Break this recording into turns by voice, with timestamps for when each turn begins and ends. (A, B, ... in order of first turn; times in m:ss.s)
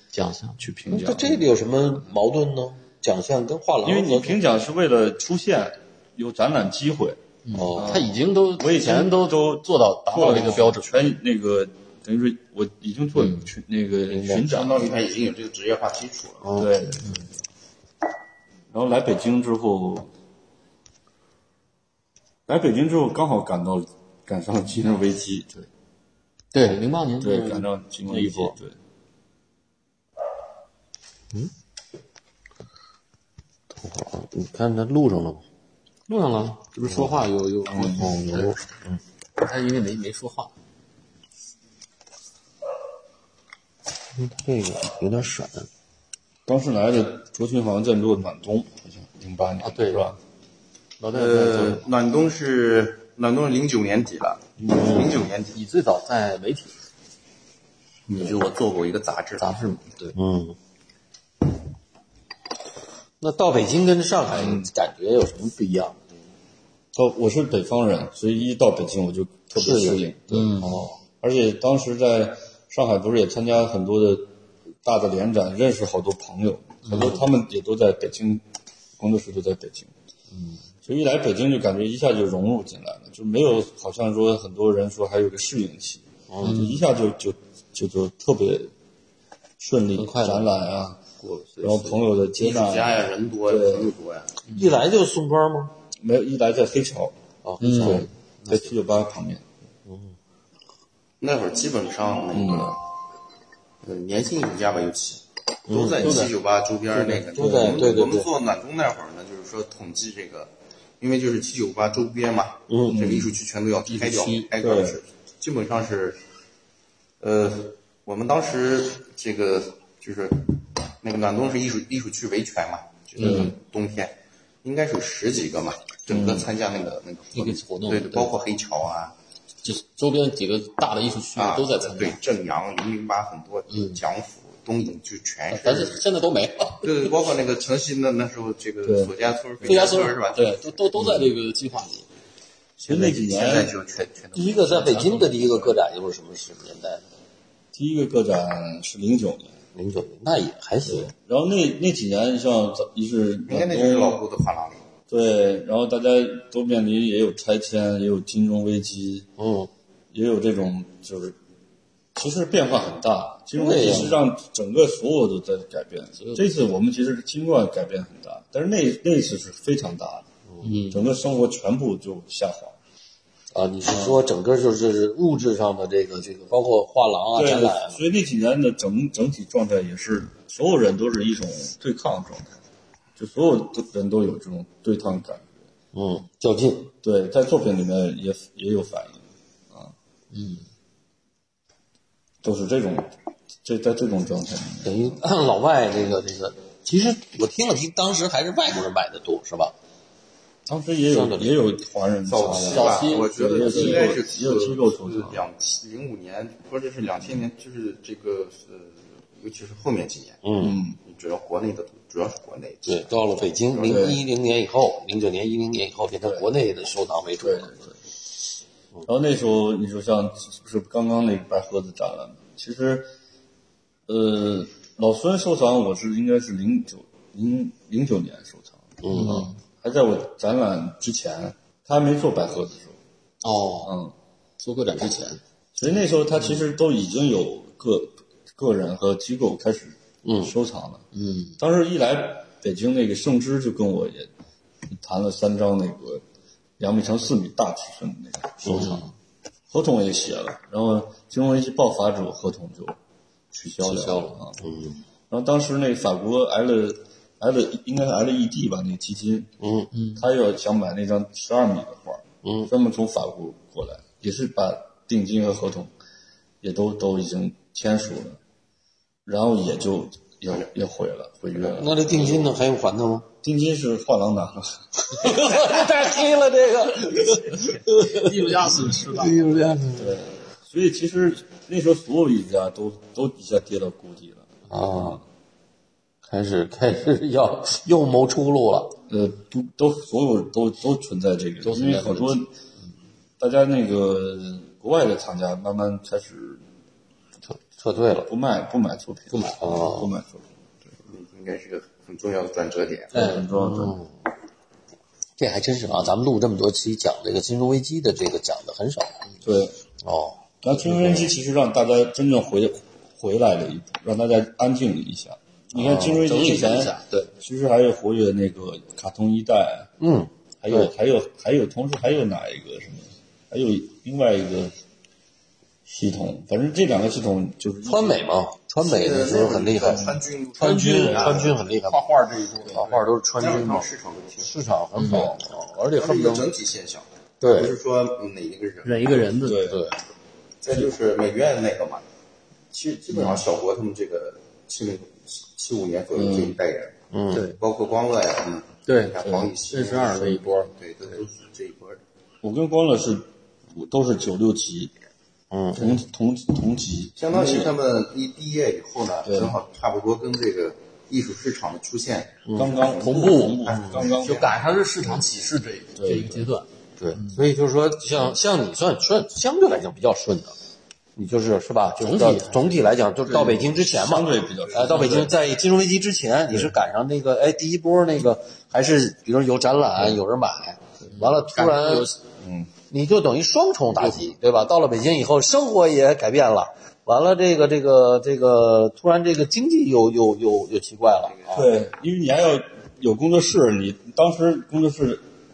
0:00.1-0:00.6 A
0:00.6-0:01.5 B
0:00.9-0:04.4 C
0:03.8-0:07.2 B
0:07.4-0:11.1 A
0:07.5-0:08.1 C
0:07.8-0:14.9 B
0:13.2-0:13.5 A
0:14.1-0:14.5 C
0:14.3-0:16.5 D
0:16.4-0:16.7 C
0:16.6-0:17.2 B
0:18.7-0:20.1 B
0:22.5-0:25.6 B
0:26.5-0:28.5 A
0:27.2-0:28.7 B
0:33.7-0:35.4 C
0:36.1-0:38.6 A
0:36.8-0:37.2 C
0:37.7-0:38.0 B
0:38.0-0:39.0 C
0:39.4-0:40.5 A
0:44.1-0:45.7 C
0:46.5-0:50.2 B
0:49.6-0:50.0 A
0:51.0-0:51.9 A
0:51.1-0:55.6 D
0:54.6-0:55.1 B
0:54.7-0:55.2 C
0:55.5-0:56.7 A
0:58.1-0:59.6 D
0:59.4-1:00.2 A
1:00.1-1:00.6 C
1:03.2-1:06.0 C
1:04.3-1:04.7 B
1:06.9-1:14.3 B
1:09.6-1:10.0 C
1:10.3-1:10.8 A
1:10.6-1:11.0 C
1:14.8-1:18.4 B
1:16.9-1:17.2 A
1:16.9-1:17.2 C
1:19.0-1:19.9 B
1:20.8-1:28.7 B
1:26.3-1:26.6 C
1:26.4-1:26.8 A
1:29.6-1:31.0 B
1:31.2-1:31.6 A
1:31.6-1:33.9 B
1:31.6-1:34.4 D
1:34.5-1:34.7 A
1:34.5-1:35.7 C
1:36.0-1:37.1 B
1:37.4-1:38.1 C
1:37.6-1:38.1 A
1:37.7-1:39.4 B
1:39.8-1:40.1 C
1:41.2-1:42.8 D
1:42.3-1:42.8 B
1:43.8-1:56.2 D
1:45.7-1:46.3 C
1:46.0-1:46.3 A
1:47.0-1:48.3 C
1:47.3-1:48.1 B
1:52.7-1:53.0 C
1:52.9-1:53.4 B
1:53.9-1:54.5 A
1:54.6-1:55.0 B
1:57.2-2:09.1 D
2:03.2-2:03.5 A
2:03.2-2:03.6 B
2:06.1-2:06.5 B
2:07.3-2:08.3 A
2:09.6-2:12.2 A
2:11.3-2:16.0 D
2:13.7-2:14.0 A
2:15.5-2:17.1 A
2:16.8-2:20.7 D
2:18.8-2:19.1 B
2:19.6-2:22.0 A
2:21.0-2:21.3 B
2:22.8-2:23.7 B
2:22.9-2:25.6 D
2:24.3-2:27.0 C
2:24.8-2:25.3 A
2:27.7-2:29.5 B
2:29.7-2:31.1 C
2:30.8-2:34.2 B
2:33.5-2:34.8 D
2:35.1-2:39.3 B
2:39.4-2:39.7 C
2:40.1-2:41.4 B
2:42.1-2:50.2 B
2:43.5-2:44.2 C
2:50.6-2:51.1 A
2:50.9-2:52.8 B
2:53.5-2:58.0 C
2:53.9-2:54.2 B
2:57.3-3:02.5 B
3:03.2-3:05.5 B
3:05.9-3:06.9 C
3:07.0-3:09.2 B
3:10.3-3:10.6 A
3:12.4-3:13.1 B
3:13.6-3:15.2 B
3:14.8-3:19.7 C
3:20.7-3:25.4 B
3:21.1-3:21.6 C
3:22.2-3:30.4 D
3:22.6-3:24.1 A
3:30.4-3:30.8 C
3:30.6-3:31.0 B
3:31.0-3:34.1 D
3:32.8-3:37.8 C
3:33.8-3:34.2 B
3:37.4-3:37.9 B
3:39.0-3:43.1 B
3:44.1-3:53.0 B
3:49.0-3:49.5 C
3:49.1-3:49.6 A
3:53.4-3:53.9 A
3:53.8-3:54.1 B
3:54.6-3:55.4 A
3:55.8-4:01.0 B
4:00.2-4:00.5 C
4:01.1-4:01.6 A
4:01.6-4:04.3 B
4:04.9-4:06.2 B
4:06.8-4:09.1 B
4:08.6-4:09.1 C
4:09.7-4:13.0 B
4:13.5-4:14.6 B
4:13.8-4:15.0 C
4:15.3-4:19.5 B
4:19.6-4:19.9 C
4:19.9-4:20.2 A
4:20.1-4:25.9 B
4:22.4-4:22.7 C
4:26.6-4:28.4 B
4:29.2-4:32.6 B
4:31.6-4:33.3 C
4:33.4-4:35.6 B
4:35.1-4:40.1 C
4:38.0-4:39.7 A
4:39.9-4:45.2 B
4:44.7-4:45.2 C
4:46.2-4:49.0 C
4:49.1-4:52.5 B
4:51.6-4:52.3 A
4:53.4-4:56.6 B
4:57.5-4:58.3 C
4:58.3-5:00.4 B
4:59.3-4:59.6 A
4:59.6-5:00.1 C
5:01.0-5:03.3 D
5:03.1-5:04.0 B
5:03.2-5:04.1 C
5:05.4-5:09.2 C
5:09.4-5:09.8 B
5:10.0-5:11.3 C
5:10.6-5:19.9 B
5:15.7-5:17.0 C
5:16.3-5:17.2 A
5:20.0-5:20.9 C
5:20.6-5:24.7 B
5:25.9-5:28.2 B
5:27.8-5:32.0 C
5:28.8-5:31.5 D
5:29.8-5:30.1 B
5:30.6-5:33.0 A
5:31.0-5:31.5 B
5:32.7-5:33.9 C
5:33.4-5:34.5 D
5:34.4-5:36.5 C
5:35.0-5:35.3 A
5:35.1-5:35.3 B
5:35.9-5:39.3 D
5:37.4-5:37.7 C
5:38.8-5:39.8 A
5:39.4-5:39.8 B
5:39.6-5:40.0 C
5:40.6-5:42.0 D
5:42.7-5:52.0 D
5:46.1-5:46.6 B
5:47.1-5:47.5 C
5:47.3-5:47.6 A
5:48.8-5:50.7 A
5:49.2-5:49.5 B
5:52.4-5:54.9 B
5:55.5-5:56.0 C
5:55.7-5:57.8 B
5:57.2-6:04.6 D
5:59.2-5:59.6 B
6:02.6-6:05.2 B
6:03.0-6:07.4 A
6:06.0-6:06.5 B
6:07.0-6:10.5 C
6:11.2-6:22.1 C
6:12.0-6:12.7 A
6:13.3-6:15.3 B
6:21.1-6:22.2 A
6:22.4-6:22.7 B
6:22.9-6:31.7 C
6:31.5-6:35.2 B